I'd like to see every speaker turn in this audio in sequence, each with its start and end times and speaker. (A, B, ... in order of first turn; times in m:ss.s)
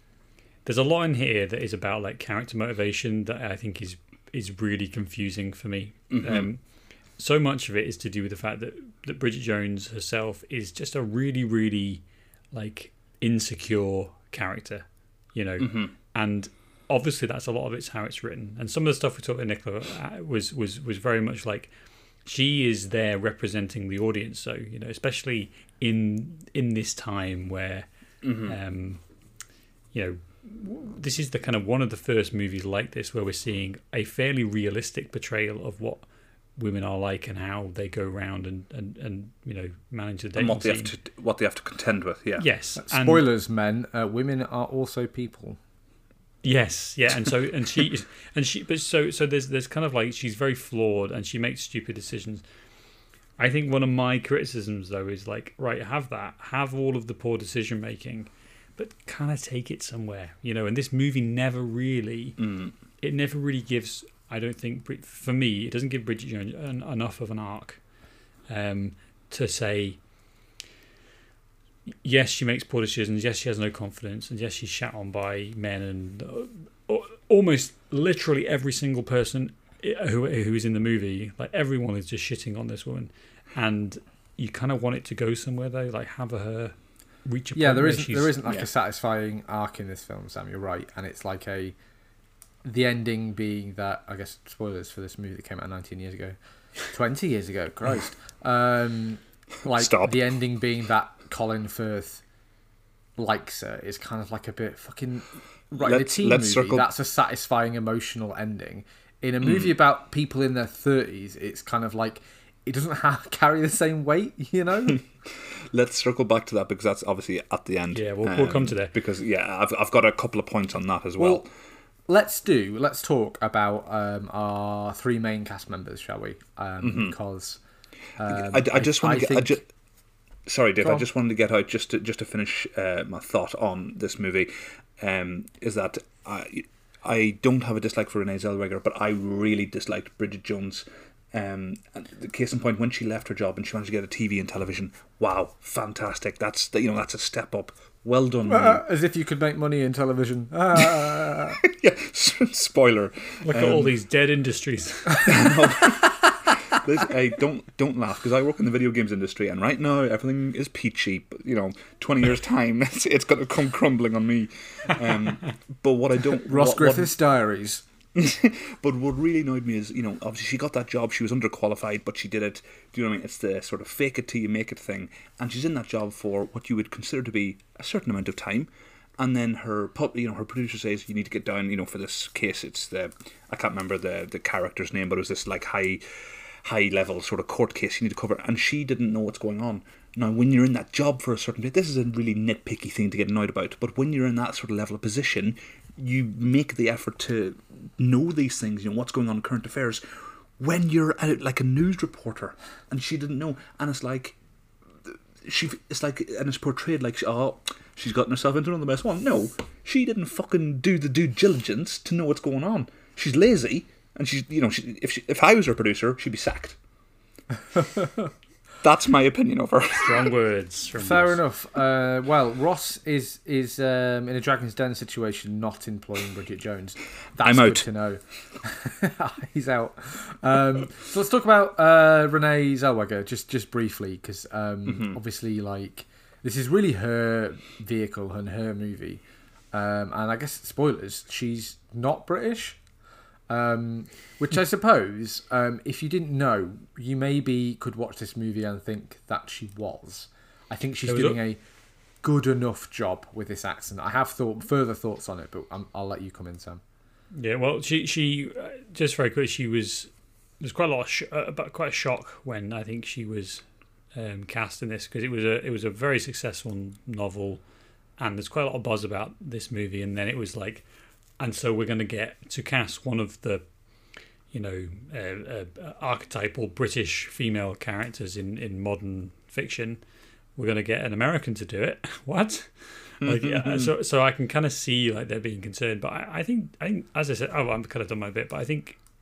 0:00.6-0:21.7 A
0:06.1-0:06.5 B
0:15.6-0:15.9 B
0:22.2-0:27.9 A
0:28.2-0:28.6 B
0:28.4-0:29.0 A
0:29.9-0:40.9 A
0:40.4-0:42.4 B
0:42.4-0:43.2 A
0:42.8-0:45.6 C
0:46.4-0:52.4 A
0:53.4-1:02.4 A
1:02.4-1:02.7 B
1:03.0-1:07.8 A
1:08.5-1:10.0 A
1:12.0-1:28.3 A
1:27.5-1:31.7 C
1:32.6-1:42.2 C
1:39.7-1:40.3 B
1:43.2-1:55.0 C
1:45.8-1:46.9 B
1:49.4-1:49.8 B
1:55.5-2:01.5 B
1:57.9-1:58.9 A
2:01.2-2:01.4 C
2:02.1-2:07.6 C
2:06.8-2:07.1 B
2:08.2-2:09.6 C
2:08.2-2:09.6 B
2:10.4-2:28.8 B
2:10.8-2:11.0 C
2:28.5-2:31.6 C
2:30.8-2:31.1 B
2:31.6-2:33.9 B
2:33.4-2:35.6 A
2:35.2-2:47.1 B
2:46.5-2:47.8 C
2:48.1-3:06.0 B
3:06.6-3:24.4 B
3:25.0-3:36.8 B
3:37.8-3:38.2 C
3:38.8-3:40.3 B
3:39.9-3:41.4 A
3:41.0-4:02.8 C
3:47.4-3:47.8 B
3:54.8-3:55.2 B
4:03.5-4:11.6 C
4:11.0-4:11.4 A
4:12.2-4:16.8 C
4:17.3-4:27.6 A
4:28.2-4:30.8 A
4:31.4-4:33.7 A
4:34.5-4:40.0 A
4:40.6-4:49.0 A
4:43.2-4:43.9 B